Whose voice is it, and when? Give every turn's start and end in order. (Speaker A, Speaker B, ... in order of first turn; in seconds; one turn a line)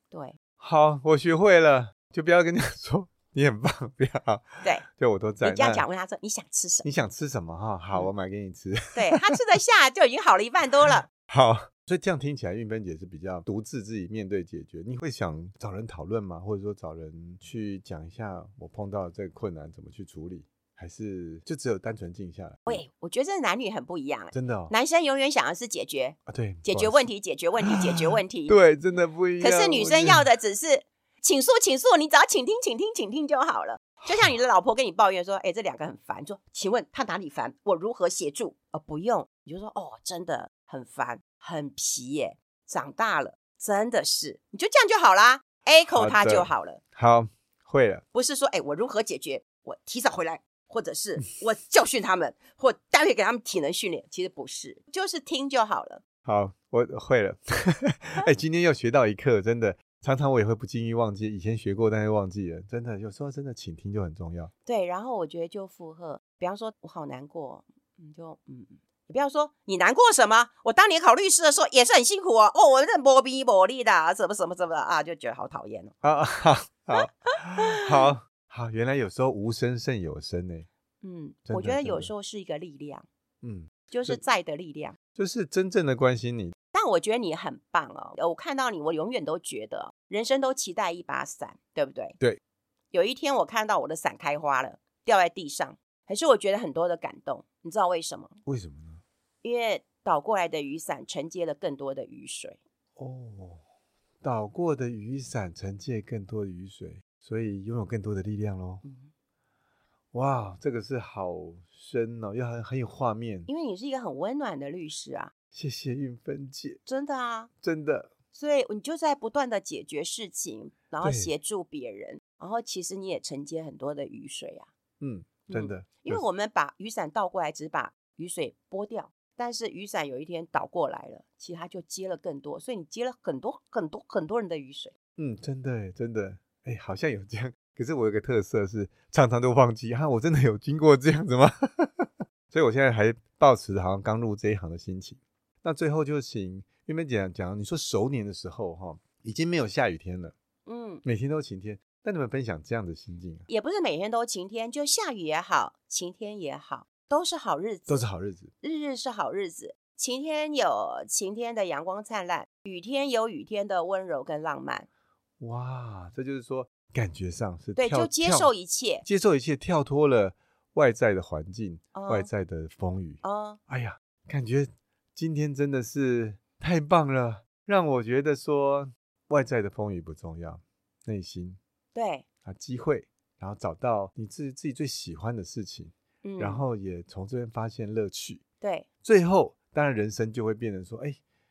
Speaker A: 0.1-0.4
Speaker B: 0.6-5.8
Speaker A: 5.4-6.9
Speaker B: 6.8-9.4
Speaker A: 8.9-11.1
Speaker B: 11.1-22.8
Speaker A: 22.7-28.6
Speaker B: 24.3-24.7
Speaker B: 26.3-27.1
Speaker B: 27.6-30.2
Speaker A: 29.4-46.8
Speaker B: 45.9-48.0
Speaker A: 48.1-56.0
Speaker B: 56.2-64.5
Speaker A: 64.7-75.9
Speaker B: 76.0-80.7
Speaker A: 76.9-78.1
Speaker A: 81.0-83.1
Speaker B: 81.5-82.1
Speaker B: 83.4-84.2
Speaker A: 83.9-85.0
Speaker B: 85.1-86.5
Speaker A: 86.7-92.2
Speaker A: 92.9-98.4
Speaker B: 98.4-99.0
Speaker A: 99.4-102.6
Speaker B: 103.0-103.6
Speaker B: 104.2-108.8
Speaker A: 108.8-109.1
Speaker B: 110.1-113.5
Speaker A: 113.5-115.3
Speaker B: 115.5-116.8
Speaker A: 116.9-117.5
Speaker B: 117.6-118.1
Speaker A: 118.3-124.7
Speaker B: 121.0-121.3
Speaker B: 125.0-126.2
Speaker A: 125.5-134.9
Speaker B: 135.2-150.3
Speaker A: 150.7-151.0
Speaker B: 151.0-153.4
Speaker A: 153.5-158.1
Speaker B: 157.9-158.5
Speaker A: 158.6-164.9
Speaker B: 165.4-168.5
Speaker A: 167.8-169.1
Speaker B: 169.1-181.6
Speaker A: 171.9-172.3
Speaker A: 173.2-173.6
Speaker A: 181.9-182.2
Speaker B: 182.4-188.4
Speaker A: 186.2-186.6
Speaker A: 188.6-188.9
Speaker B: 189.0-191.2